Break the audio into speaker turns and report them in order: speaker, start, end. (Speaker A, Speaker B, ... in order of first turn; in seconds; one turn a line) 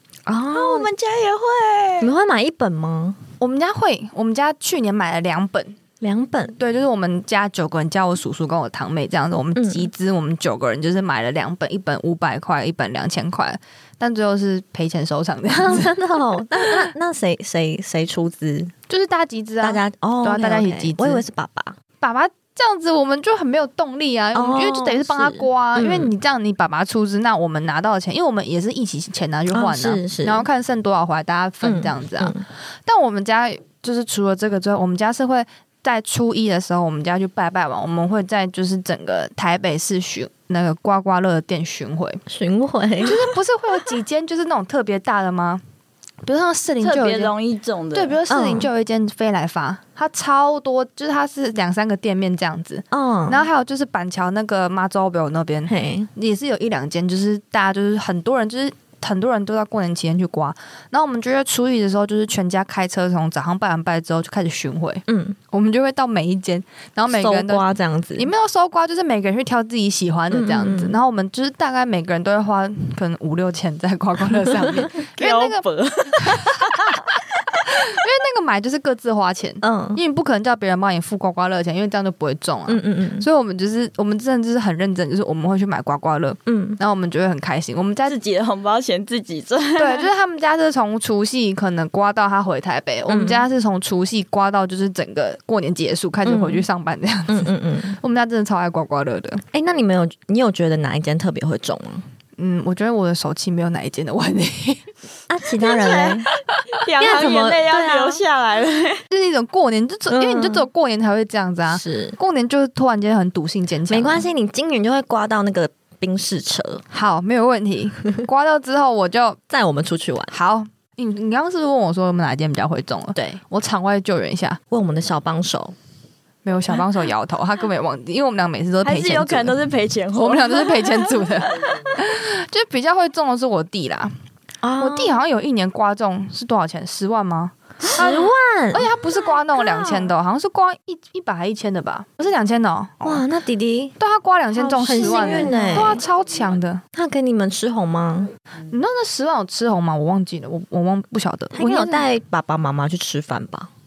Speaker A: 0.3-0.9
Speaker B: 0.5-2.1
Speaker A: 2.0-3.2
Speaker C: 3.4-5.8
Speaker A: 6.0-6.6
Speaker C: 6.6-16.0
Speaker A: 9.6-9.9
Speaker A: 15.5-18.7
Speaker C: 16.6-16.9
Speaker C: 18.9-21.2
Speaker A: 19.6-21.8
Speaker C: 22.0-32.3
Speaker A: 24.3-26.1
Speaker A: 29.5-30.5
Speaker A: 31.6-32.4
Speaker C: 32.9-42.2
Speaker A: 42.3-43.3
Speaker C: 43.0-45.6
Speaker C: 46.2-47.3
Speaker B: 46.8-48.2
Speaker C: 47.9-75.6
Speaker A: 48.3-48.7
Speaker A: 52.9-53.5
Speaker A: 55.7-56.1
Speaker A: 65.1-65.4
Speaker A: 67.1-68.3
Speaker A: 70.3-71.0
Speaker B: 75.1-77.1
Speaker C: 76.2-76.8
Speaker C: 77.7-88.2
Speaker A: 79.6-80.0
Speaker A: 82.7-83.3
Speaker A: 86.5-86.8
Speaker B: 88.0-90.1
Speaker C: 89.8-99.4
Speaker A: 93.1-93.5
Speaker A: 96.2-96.7
Speaker A: 97.3-98.0
Speaker A: 99.5-102.1
Speaker C: 102.4-104.9
Speaker A: 105.3-106.3
Speaker B: 105.6-109.0
Speaker A: 107.0-108.2
Speaker C: 109.1-114.3
Speaker A: 110.1-110.7
Speaker A: 111.7-112.2
Speaker A: 113.9-116.8
Speaker C: 116.9-119.4
Speaker A: 119.5-120.3
Speaker C: 120.3-124.6
Speaker A: 123.2-123.4
Speaker A: 124.7-125.8
Speaker C: 126.4-129.6
Speaker B: 128.8-131.3
Speaker C: 130.1-134.1
Speaker A: 134.6-135.2
Speaker C: 134.8-143.2
Speaker A: 137.9-138.9
Speaker B: 139.6-140.1
Speaker A: 143.0-144.0
Speaker C: 144.0-146.8
Speaker A: 144.6-146.0
Speaker B: 144.9-146.0
Speaker A: 146.9-148.3
Speaker C: 148.7-152.1
Speaker A: 151.5-153.7